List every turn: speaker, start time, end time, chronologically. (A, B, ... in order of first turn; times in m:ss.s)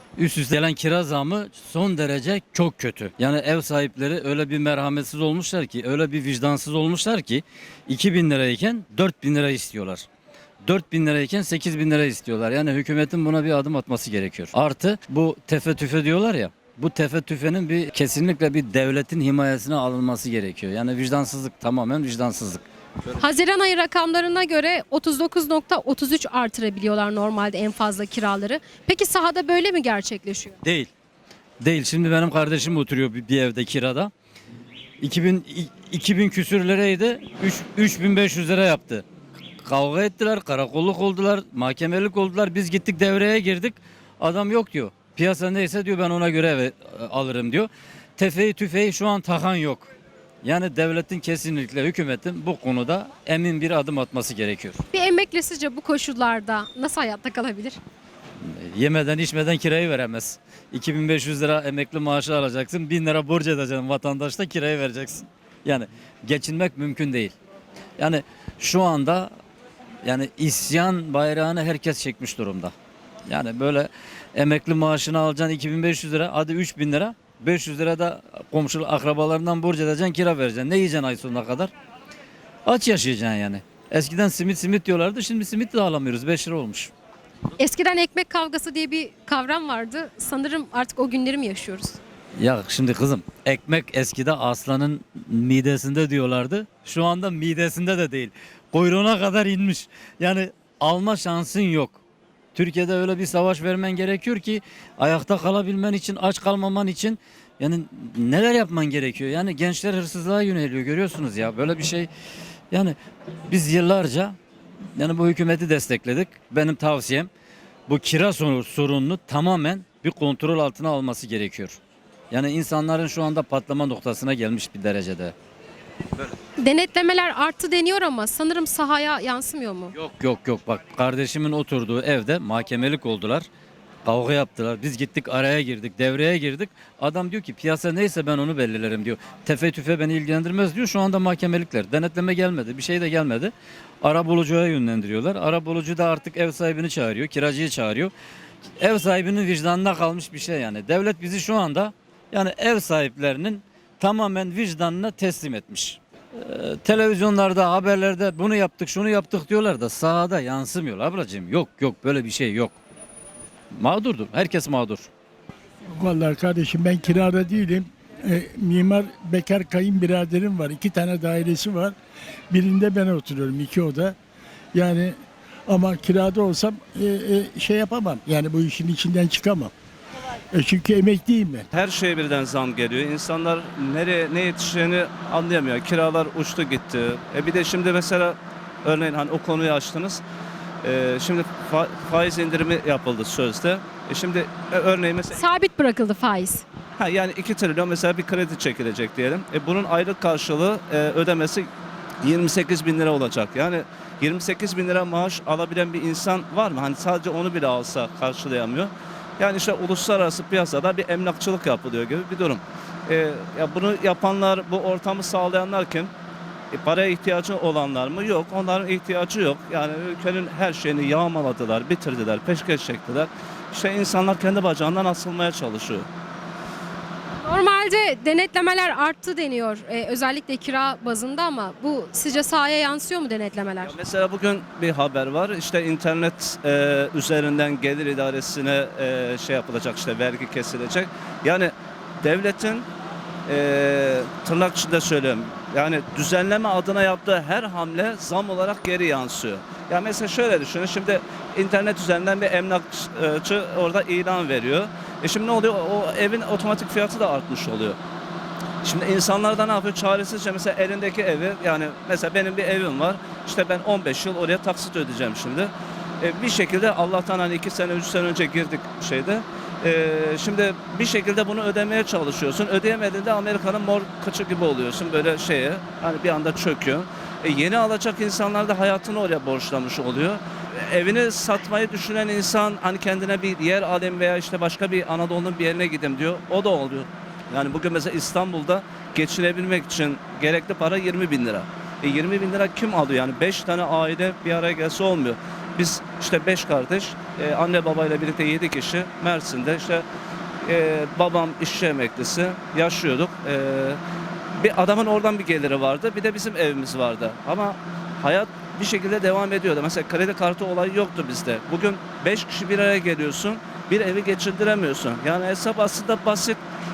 0:00.2-0:10.1 A
0:10.6-0:22.6 A
0:23.2-0:30.6 B
0:30.6-0:30.9 A
0:31.6-0:34.1 A
0:35.0-0:39.0 A
0:39.6-0:49.9 A
0:50.4-0:54.8 A
0:54.9-0:57.8 B
0:58.4-1:07.3 A
1:08.0-1:09.3 A
1:10.0-1:12.7 A
1:13.3-1:21.7 A
1:22.6-1:26.9 A
1:27.6-1:32.0 B
1:32.4-1:42.0 A
1:42.5-1:52.1 A
1:52.7-1:53.0 A
1:53.5-1:54.4 A
1:55.0-1:57.3 A
1:57.9-2:01.8 A
2:02.3-2:05.3 A
2:06.6-2:09.9 B
2:09.9-2:13.4 A
2:14.0-2:28.1 A
2:28.8-2:42.8 A
2:43.7-2:45.1 A
2:46.0-2:52.0 C
2:52.5-2:54.2 C
2:54.7-2:55.2 C
2:55.7-2:59.7 C
3:00.5-3:01.6 C
3:01.7-3:10.2 D
3:10.8-3:15.4 D
3:15.3-3:16.6 B
3:17.0-3:21.7 D
3:22.2-3:36.1 D
3:36.7-3:46.1 D
3:47.4-3:53.9 B
3:53.8-4:02.8 D
4:03.5-4:18.0 D
4:18.8-5:00.0 D
5:00.6-5:04.0 D
5:04.6-5:16.6 D